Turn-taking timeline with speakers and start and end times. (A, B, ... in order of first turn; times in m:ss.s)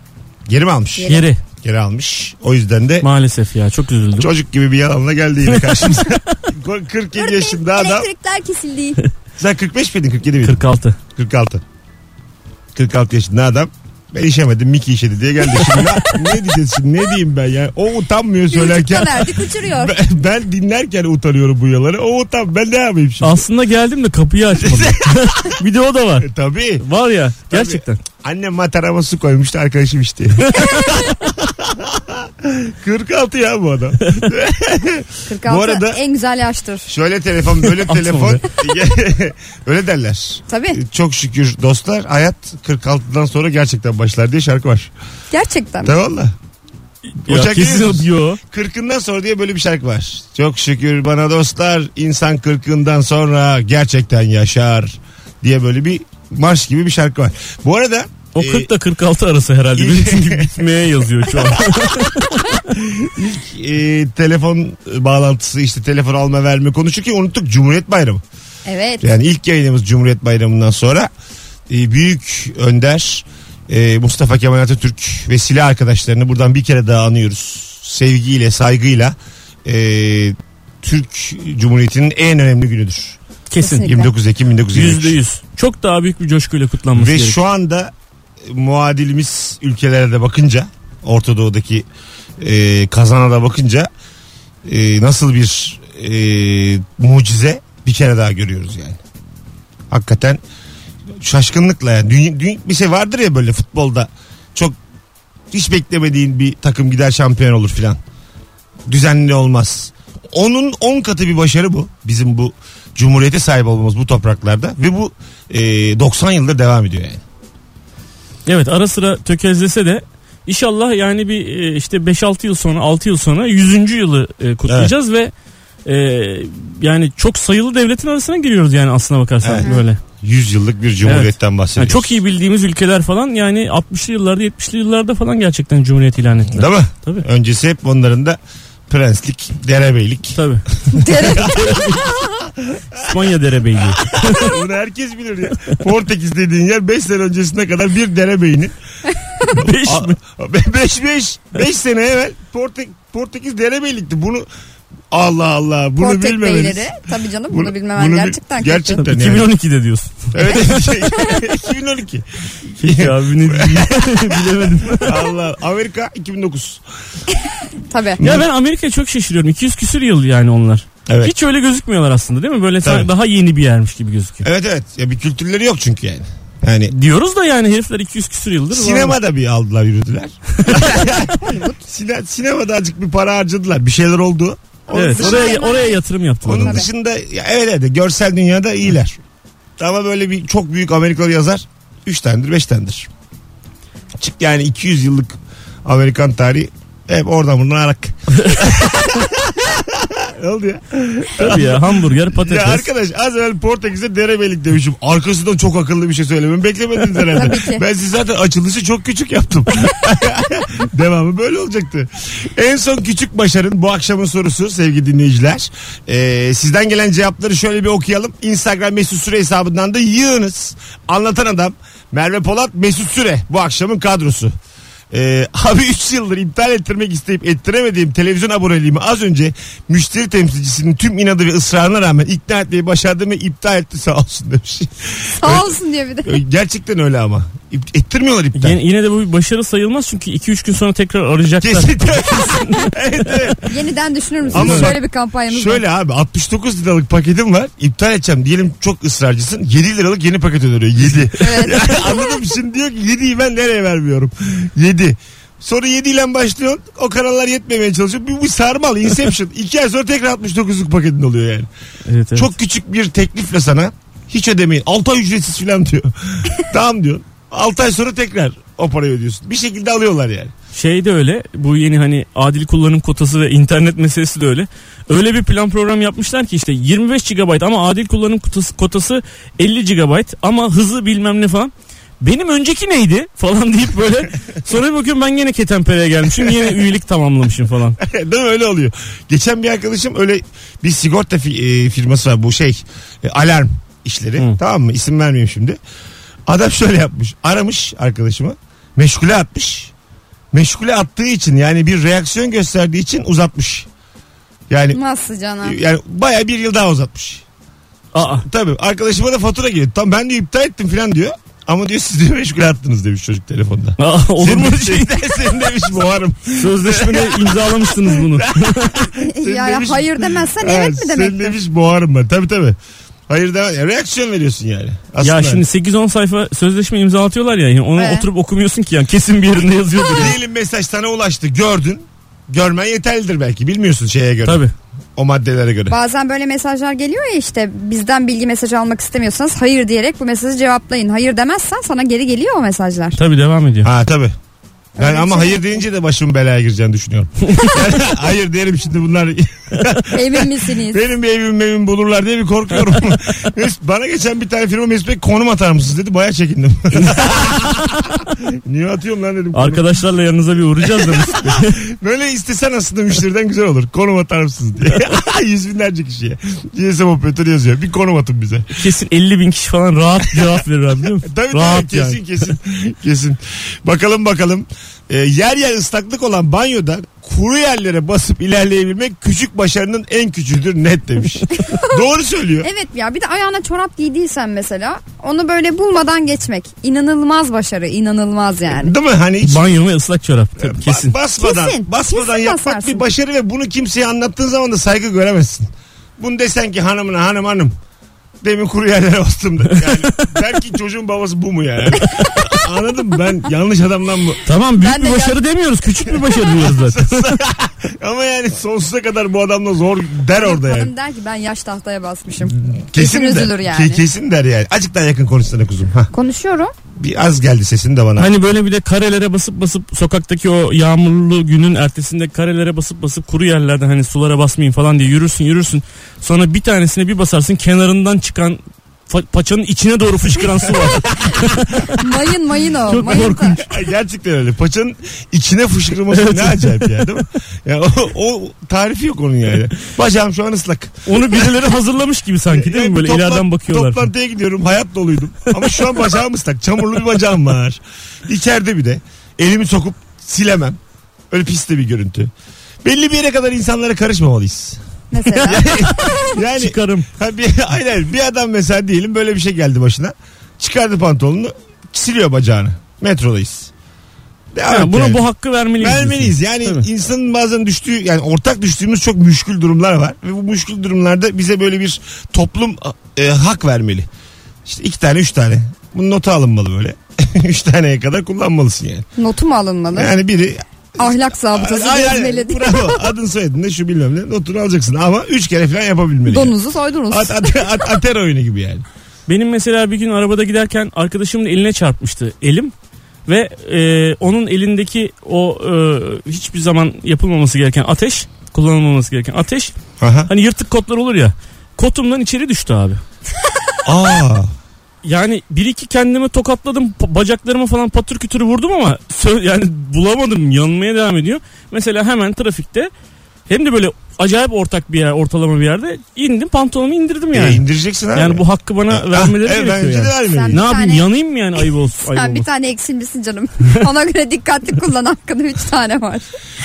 0:00.5-0:03.1 A
0:01.0-0:01.3 B
0:01.1-0:01.4 C
0:03.0-0:04.3 C
0:04.2-0:08.1 A
0:05.5-0:06.2 C
0:07.2-0:09.0 B
0:09.4-0:10.6 A
0:10.4-0:11.0 C
0:11.2-0:11.6 A
0:12.8-0:23.4 A
0:18.5-0:20.0 B
0:23.2-0:28.0 C
0:24.6-0:25.6 A
0:26.2-0:26.8 A
0:27.5-0:36.0 A
0:30.5-0:31.0 C
0:35.3-0:36.9 B
0:36.9-0:44.9 A
0:37.8-0:38.4 C
0:40.5-0:40.8 B
0:45.3-0:46.0 B
0:45.8-0:46.3 A
0:47.1-0:48.4 C
0:47.3-0:58.7 A
0:58.4-1:02.7 C
0:59.8-1:00.7 A
1:01.4-1:02.0 A
1:02.7-1:08.2 A
1:08.7-1:09.0 B
1:09.0-1:11.1 A
1:11.7-1:23.2 A
1:23.5-1:23.9 C
1:23.6-1:24.1 B
1:23.8-1:25.2 A
1:24.7-1:27.4 C
1:26.9-1:27.9 A
1:28.4-1:31.9 A
1:32.4-1:33.9 A
1:34.7-1:39.0 A
1:39.9-1:40.4 A
1:41.2-1:44.8 A
1:45.5-1:48.0 A
1:48.9-1:57.2 A
1:58.5-2:05.3 C
2:04.7-2:04.9 A
2:05.9-2:10.0 C
2:09.4-2:12.2 A
2:11.0-2:17.3 C
2:16.5-2:18.4 A
2:18.9-2:20.4 A
2:20.4-2:20.6 C
2:20.9-2:21.7 B
2:20.9-2:23.2 A
2:21.4-2:22.1 C
2:23.0-2:24.6 C
2:23.8-2:28.8 A
2:29.5-2:34.5 A
2:29.5-2:30.2 C
2:35.1-2:36.9 A
2:36.0-2:39.1 B
2:37.5-2:39.5 A
2:39.0-2:41.1 C
2:40.3-2:42.3 A
2:42.8-2:45.2 C
2:42.8-2:46.8 A
2:47.9-2:48.2 B
2:48.2-2:48.5 A
2:48.2-2:54.5 C
2:51.1-2:51.3 A
2:52.8-2:53.1 A
2:54.4-2:56.9 A
2:56.9-2:59.2 C
2:58.7-3:05.6 A
3:00.6-3:00.9 C
3:01.3-3:01.8 B
3:04.9-3:06.9 B
3:04.9-3:06.8 C
3:06.4-3:09.2 A
3:09.8-3:13.1 A
3:14.2-3:44.5 A
3:21.4-3:22.9 C
3:27.3-3:27.8 B
3:45.1-3:55.7 A
3:55.4-3:56.4 B
3:56.2-3:58.8 A
3:58.6-4:02.9 C
4:01.6-4:03.7 A
4:03.7-4:05.8 B
4:04.5-4:21.7 A
4:04.5-4:04.9 C
4:11.4-4:12.4 B
4:22.1-4:22.5 C
4:22.4-4:30.5 A
4:30.7-4:48.0 C
4:48.0-4:55.8 A
4:56.5-4:59.9 A
5:00.5-5:03.9 A
5:04.7-5:05.0 A
5:04.9-5:05.8 B
5:05.6-5:07.4 A
5:08.1-5:08.4 C
5:08.2-5:22.8 A
5:14.0-5:15.5 C
5:16.6-5:19.0 C
5:19.2-5:21.6 B
5:23.3-5:25.6 A
5:25.2-5:30.4 C
5:28.0-5:28.3 B
5:30.1-5:34.6 A
5:34.4-5:34.7 C
5:35.2-5:36.0 A
5:35.9-5:43.2 B
5:43.2-5:43.9 C
5:43.8-5:44.4 A
5:45.0-5:45.8 B
5:45.0-5:59.8 A
5:50.1-5:51.0 B
5:59.5-6:01.8 C
6:00.8-6:08.7 A
6:08.8-6:12.2 C
6:11.2-6:22.7 A
6:21.6-6:22.0 B
6:22.6-6:28.9 B
6:28.7-6:29.7 A
6:29.4-6:31.2 C
6:30.6-6:37.8 A
6:31.4-6:33.0 B
6:38.4-6:44.4 A
6:42.1-6:42.5 B
6:44.5-6:47.3 C
6:44.8-6:45.4 B
6:46.4-6:50.9 A
6:50.4-6:54.0 B
6:52.4-6:56.1 A
6:56.1-6:56.7 B
6:57.0-6:58.3 A
6:58.2-7:12.0 C
7:12.0-7:13.6 B
7:12.9-7:13.7 C
7:13.6-7:21.6 A
7:16.1-7:17.2 C
7:21.1-7:24.1 C
7:22.5-7:30.8 A
7:31.3-7:32.3 A
7:32.8-7:34.8 A
7:35.1-7:36.2 B
7:35.4-7:37.1 C
7:35.4-7:43.7 A
7:44.5-7:45.2 A
7:44.7-7:46.8 C
7:45.8-7:54.1 A
7:54.6-7:59.1 A
7:59.2-8:00.1 B
7:59.9-8:06.6 A
8:01.0-8:03.1 B
8:06.3-8:07.9 B
8:07.1-8:08.8 A
8:09.3-8:12.7 C
8:13.3-8:19.7 C
8:20.0-8:20.3 A
8:20.3-8:23.0 C
8:23.8-8:24.5 A
8:25.0-8:32.9 C
8:33.5-8:37.6 C
8:37.3-8:40.6 A
8:38.2-8:42.5 C
8:40.3-8:41.1 B
8:42.0-8:46.3 B